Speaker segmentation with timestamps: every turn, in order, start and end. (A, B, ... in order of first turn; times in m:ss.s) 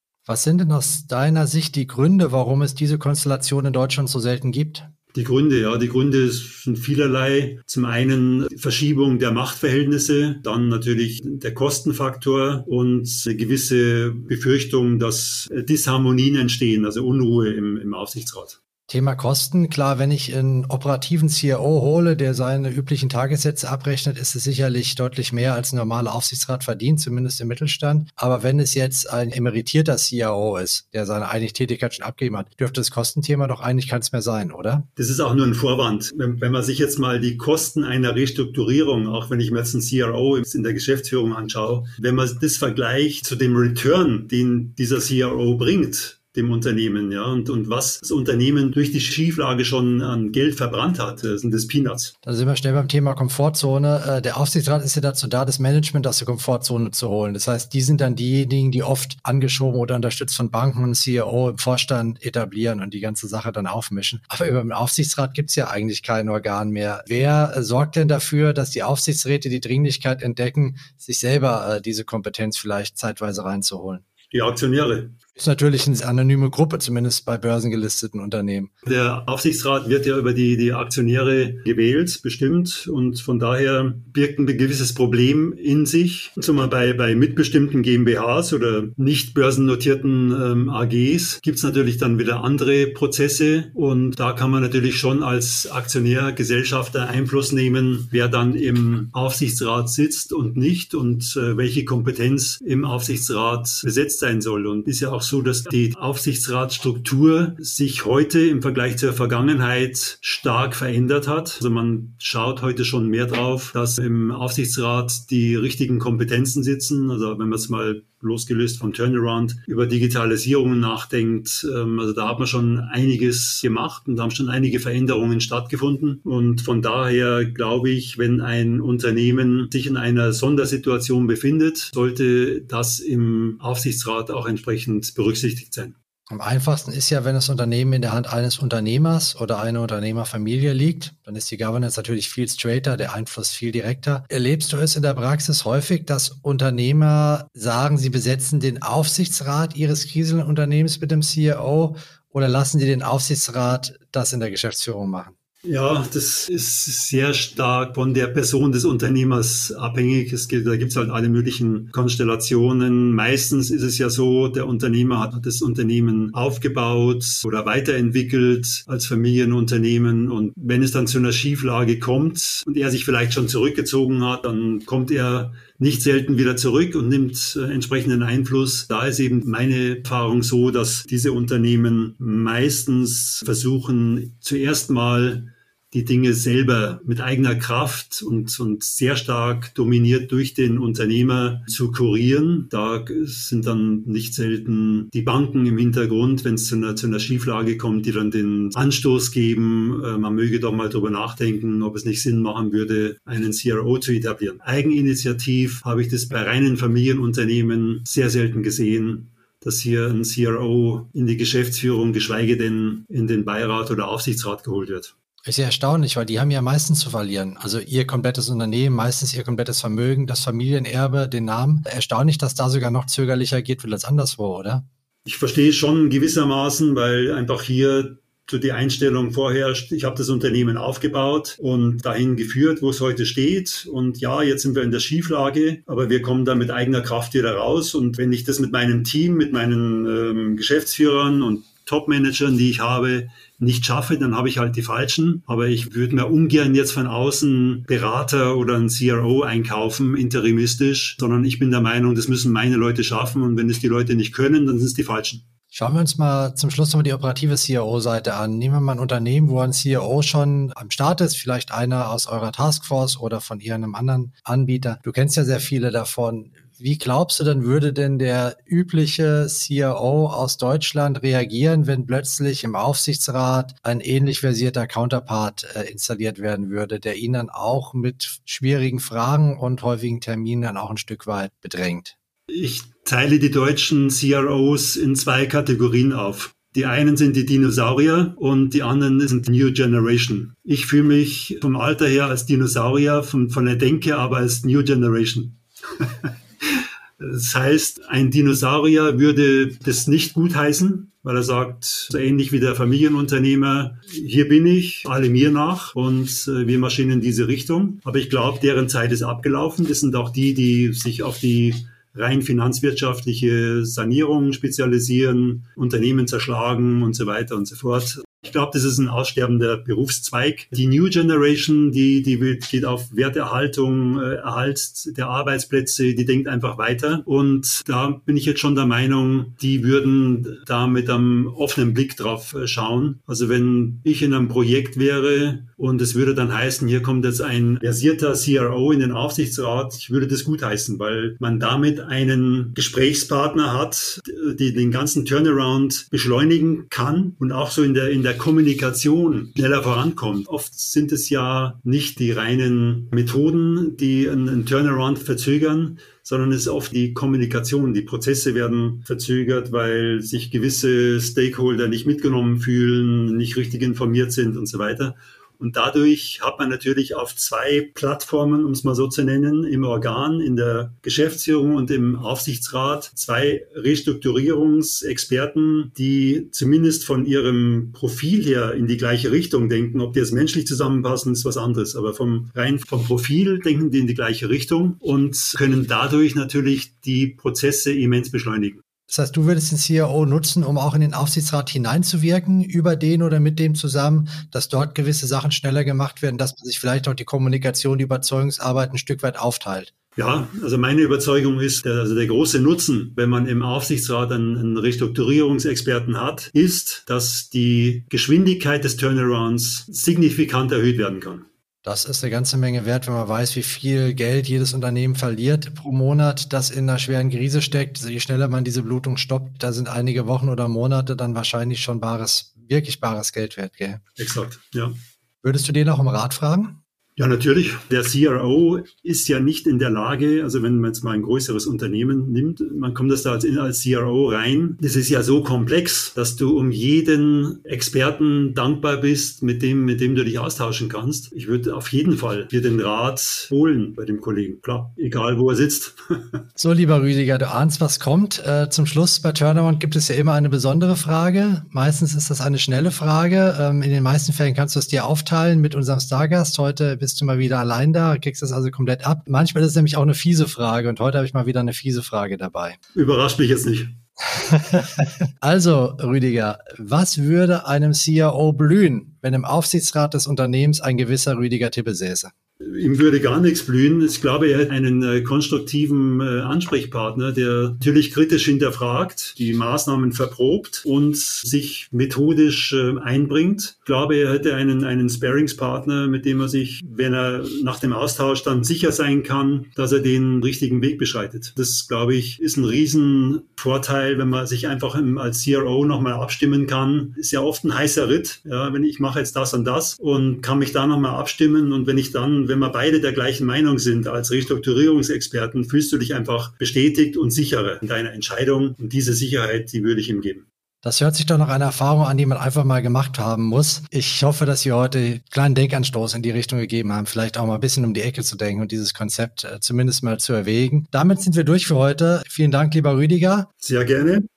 0:00.3-0:04.9 A
0:05.1-0:18.6 B
0:18.9-0:34.8 A
0:35.0-0:52.1 B
0:52.2-1:14.0 A
1:14.3-1:15.2 B
1:15.4-1:18.7 A
1:18.8-2:15.9 B
2:16.3-2:35.3 A
2:35.6-3:35.1 B
3:35.4-3:44.8 A
3:45.2-4:15.4 B
4:15.7-4:42.1 A
4:42.5-6:28.8 B
6:29.1-6:39.9 A
6:40.2-6:51.4 B
6:51.8-7:04.0 A
7:04.2-7:05.0 B
7:05.4-7:06.8 A
7:07.2-7:26.4 B
7:26.6-7:42.8 A
7:42.9-7:44.0 B
7:44.3-7:52.3 A
7:52.6-8:30.5 B
8:30.8-8:43.5 A
8:43.6-8:44.2 B